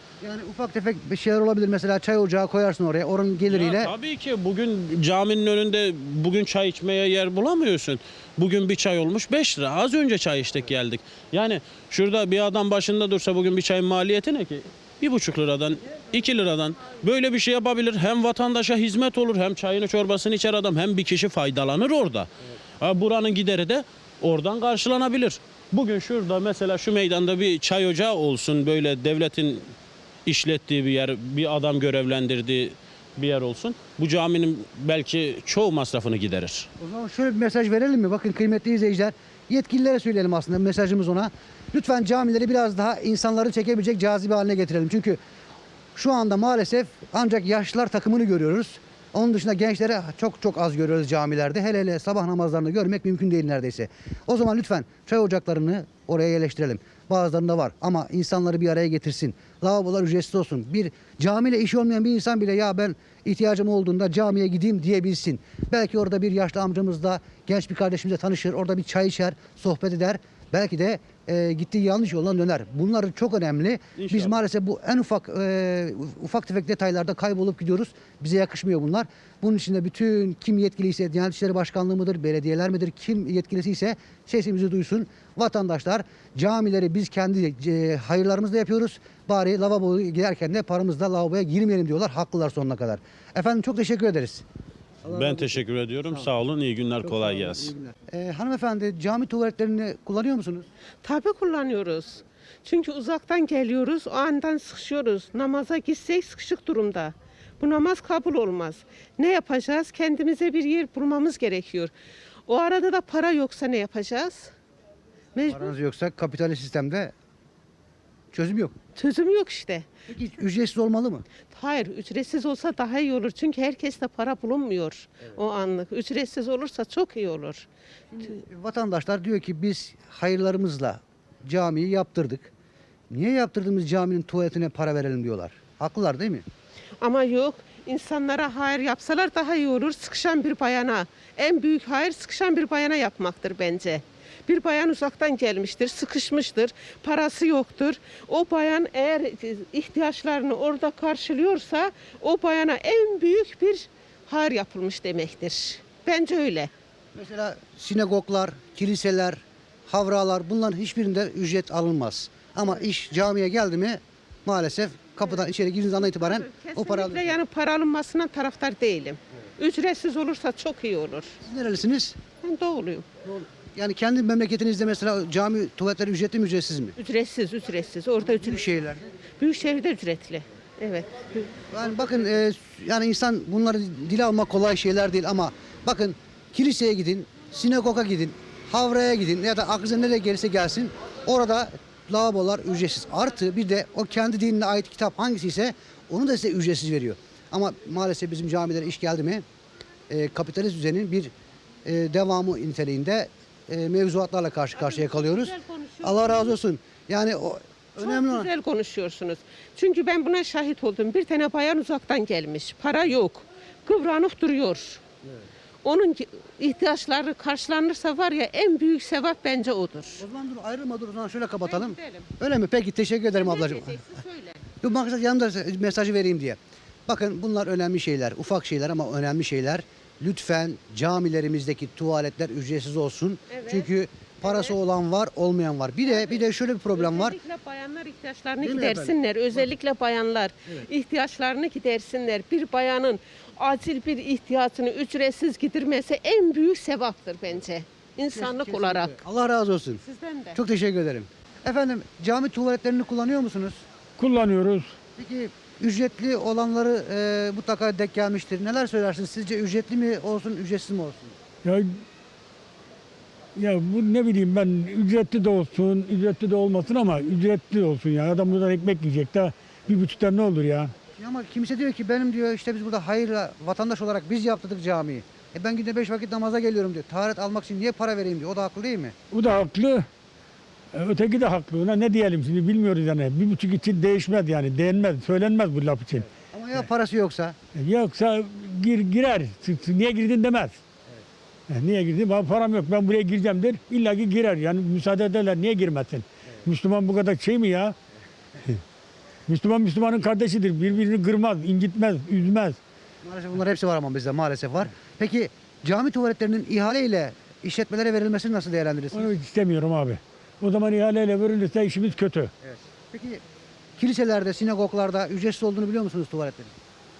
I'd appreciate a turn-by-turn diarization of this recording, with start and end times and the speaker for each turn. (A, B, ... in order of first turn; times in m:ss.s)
0:00.2-0:03.9 A
0:03.5-0:22.3 B
0:22.8-0:29.7 B
0:30.3-0:36.7 B
0:36.8-0:45.2 A
0:46.0-1:34.4 A
1:14.0-1:14.4 B
1:35.0-1:35.6 A
1:35.1-1:37.7 B
1:37.2-1:40.7 A
1:41.0-1:51.9 C
1:52.5-1:54.5 C
1:55.4-1:55.7 C
1:55.5-1:57.1 A
1:58.3-1:58.8 A
1:59.0-1:59.9 C
2:00.1-2:01.3 A
2:01.5-2:07.7 C
2:08.1-2:12.5 A
2:13.1-2:16.4 A
2:17.0-2:36.7 C
2:37.2-2:47.3 A
2:46.0-2:51.4 C
2:51.4-2:52.2 A
2:52.4-2:53.1 C
2:53.2-2:57.0 A
2:57.0-2:58.8 C
2:58.2-2:59.0 A
2:59.4-3:01.5 C
3:01.7-3:19.4 A
3:20.1-3:21.3 A
3:21.8-3:28.5 A
3:24.8-3:26.5 C
3:28.0-3:35.0 C
3:35.8-3:40.2 C
3:40.2-3:44.0 A
3:41.6-3:42.3 C
3:43.3-3:44.6 C
3:44.8-3:57.4 A
3:53.5-3:53.9 C
3:54.4-3:54.7 C
3:56.1-4:09.2 C
3:58.6-3:59.2 A
4:08.3-4:10.0 A
4:10.0-4:10.6 C
4:10.5-4:13.8 A
4:14.2-4:14.9 D
4:15.2-4:21.4 A
4:21.6-4:22.0 D
4:23.6-4:30.9 D
4:31.2-4:39.2 A
4:39.3-4:40.1 D
4:40.9-4:46.3 D
4:46.5-4:47.6 A
4:47.8-4:50.8 D
4:51.7-4:58.0 D
4:59.5-5:02.8 D
5:03.2-5:09.3 A
5:09.1-5:12.5 D
5:12.6-5:13.4 A
5:14.0-5:16.8 A